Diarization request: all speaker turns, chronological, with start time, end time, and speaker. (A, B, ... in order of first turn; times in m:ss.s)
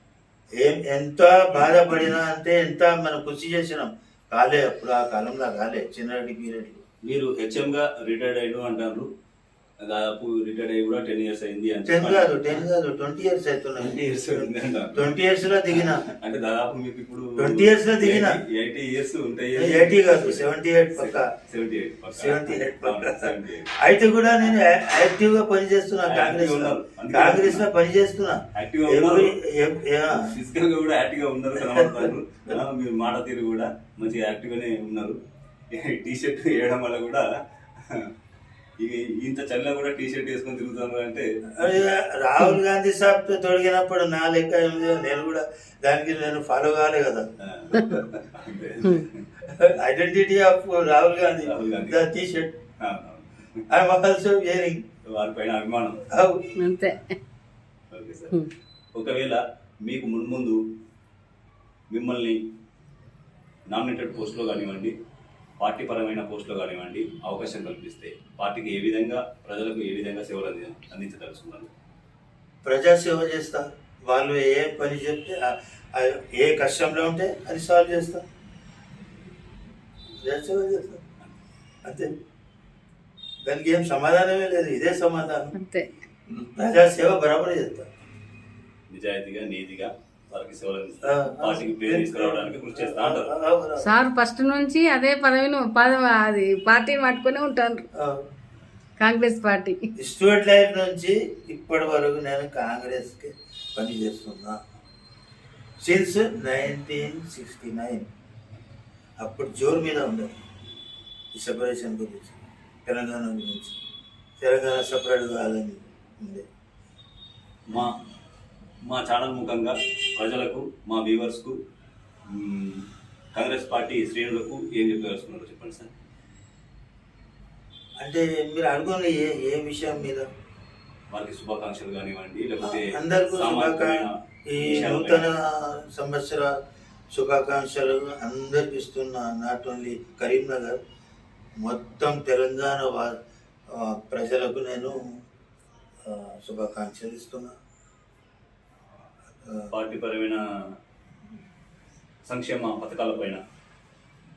0:00.6-0:06.8 A
0:01.5-0:02.2 B
0:07.0-0:09.1 B
0:09.8-0:12.7 B
0:11.8-0:16.0 A
0:13.8-0:23.9 B
0:17.4-0:18.4 A
0:19.6-0:21.3 A
0:22.2-0:30.3 A
0:26.0-0:27.7 B
0:28.5-0:29.4 B
0:30.1-0:35.2 B
0:35.7-0:38.1 B
0:38.8-0:41.2 B
0:41.6-0:48.0 A
0:47.4-0:49.3 B
0:49.6-0:52.5 A
0:51.4-0:52.1 B
0:52.8-0:53.6 B
0:53.7-0:54.8 A
0:55.1-0:56.0 B
0:56.1-0:56.6 A
0:56.6-0:57.0 C
0:57.9-1:00.6 B
1:01.9-1:02.5 B
1:03.7-1:04.9 B
1:05.6-1:11.7 B
1:12.6-1:18.2 A
1:20.2-1:21.0 A
1:21.8-1:22.1 A
1:23.4-1:25.5 A
1:25.6-1:25.9 C
1:26.3-1:27.9 A
1:28.9-1:33.3 B
1:31.0-1:33.9 A
1:33.8-1:37.8 C
1:38.0-1:38.2 A
1:39.0-1:39.8 C
1:40.0-1:44.6 A
1:45.8-1:48.0 A
1:49.2-1:50.3 A
1:51.3-1:53.8 A
1:54.4-1:56.4 A
1:57.7-1:58.0 B
1:58.8-2:01.6 B
2:02.3-2:05.9 B
2:08.0-2:10.2 A
2:11.1-2:15.3 B
2:12.6-2:16.5 A
2:17.1-2:20.8 A
2:21.6-2:23.2 A
2:23.7-2:25.0 A
2:26.0-2:27.5 A
2:29.7-2:30.8 B
2:32.3-2:33.4 B